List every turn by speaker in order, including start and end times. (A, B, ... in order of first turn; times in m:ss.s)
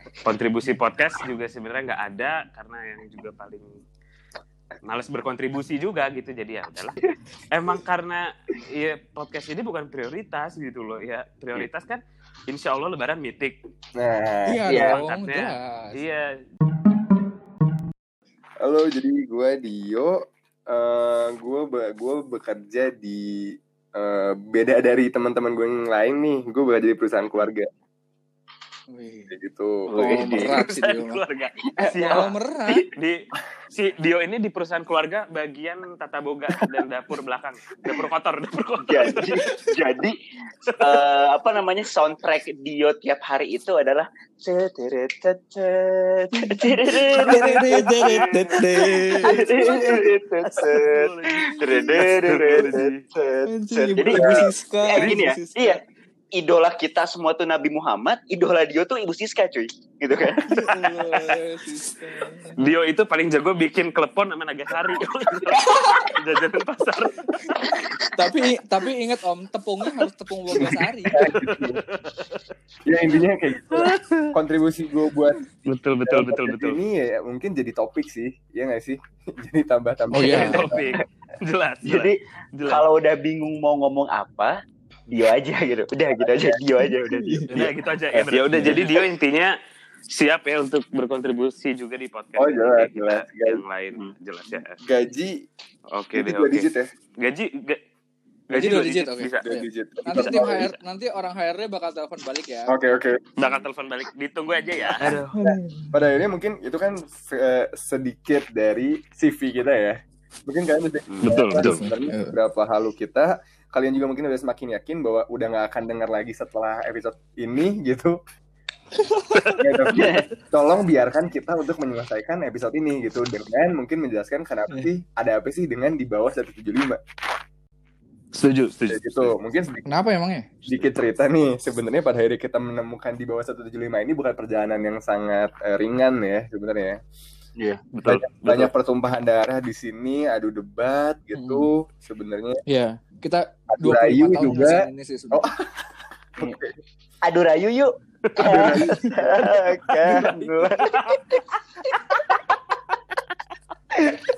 0:00.2-0:03.7 A
0:04.8-0:07.0 A
0:07.5-0:13.6 A
0:14.0-0:14.6 B
0:14.5-0:16.0 C
0:14.7-0:15.0 D
0:14.7-0:16.3 A
0:18.6-0:20.2 B
0:20.7-0:27.7 B
0:28.9-0:29.3 C
0:29.3-0:29.9 B
0:29.9-0:30.6 D
0:29.9-0:31.2 C
0:30.4-0:32.3 A
0:31.8-0:32.3 D
0:32.1-0:32.8 C
0:33.7-0:39.4 A
0:38.8-0:40.2 D
0:40.7-0:41.0 A
0:40.8-0:55.8 D
0:46.4-0:50.0 C
0:47.1-0:48.6 A
0:49.1-0:53.0 A
0:51.6-0:52.2 C
0:53.5-0:55.8 C
0:54.1-0:54.5 B
0:55.0-0:55.2 A
0:56.3-1:00.4 D
1:00.5-1:02.6 C
1:00.6-1:01.4 A
1:02.6-1:07.3 A
1:05.6-1:06.1 C
1:07.4-1:07.6 C
1:08.2-1:11.2 C
1:11.1-1:11.8 B
1:11.2-1:12.4 A
1:12.9-1:15.5 B
1:13.7-1:14.2 A
1:15.7-1:16.8 A
1:16.0-1:20.9 B
1:20.1-1:20.6 C
1:20.2-1:22.8 A
1:21.8-1:28.9 D
1:26.2-1:26.6 B
1:26.8-1:27.5 C
1:27.5-1:29.5 A
1:30.1-1:34.8 A
1:32.4-1:33.6 B
1:34.5-1:35.4 B
1:35.9-1:36.7 A
1:36.1-1:36.9 B
1:37.2-1:37.8 A
1:38.5-1:39.4 A
1:38.5-1:42.7 C
1:39.4-1:40.7 B
1:40.1-1:40.8 A
1:42.7-1:43.2 B
1:43.4-1:45.3 A
1:45.0-1:58.2 B
1:45.3-1:46.0 C
1:51.1-1:51.4 D
1:51.2-1:51.8 A
1:51.6-1:52.4 C
1:59.2-1:59.4 C
1:59.6-2:07.0 B
1:59.9-2:00.3 D
2:08.3-2:09.3 A
2:08.9-2:10.0 B
2:09.9-2:10.5 C
2:10.7-2:17.0 B
2:17.6-2:17.8 D
2:17.9-2:18.7 A
2:18.0-2:22.6 B
2:21.3-2:21.7 C
2:22.7-2:25.5 C
2:23.7-2:25.6 B
2:26.4-2:26.7 B
2:27.2-2:31.4 D
2:28.4-2:29.5 B
2:28.8-2:29.2 C
2:30.1-2:30.7 C